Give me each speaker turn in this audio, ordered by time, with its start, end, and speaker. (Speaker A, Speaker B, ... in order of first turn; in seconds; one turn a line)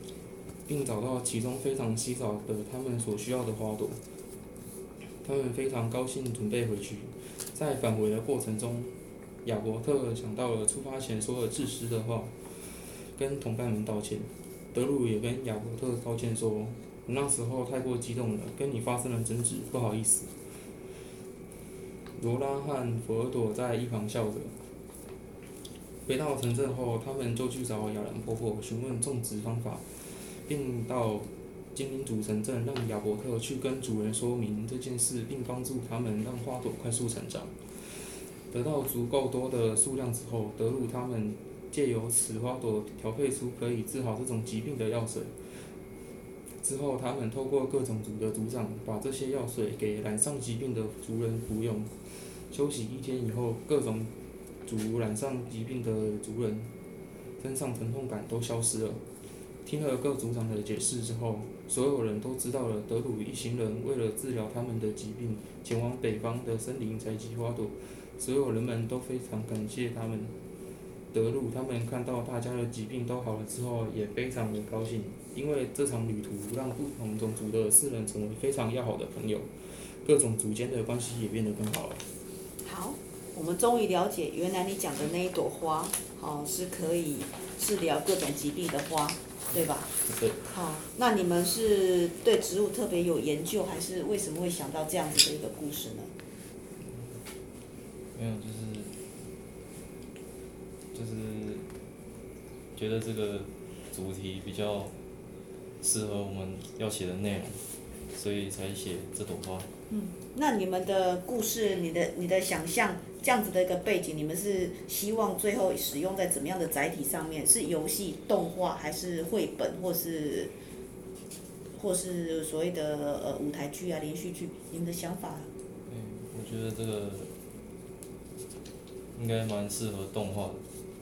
Speaker A: 0.7-4.0
Speaker A: 5.2-20.3
Speaker A: 22.1-24.6
Speaker A: 26.1-45.7
Speaker A: 46.6-54.1
Speaker A: 54.6-56.7
Speaker A: 57.4-59.0
Speaker A: 59.6-70.3
Speaker A: 71.1-82.0
Speaker B: 82.6-89.9
Speaker A: 90.1-90.4
Speaker B: 90.5-96.1
Speaker C: 98.2-98.9
Speaker C: 100.9-101.7
Speaker C: 102.8-104.9
Speaker C: 105.8-107.6
Speaker C: 108.1-109.7
Speaker B: 109.9-120.5
Speaker B: 121.7-125.5
Speaker C: 125.9-127.3
Speaker C: 129.1-130.6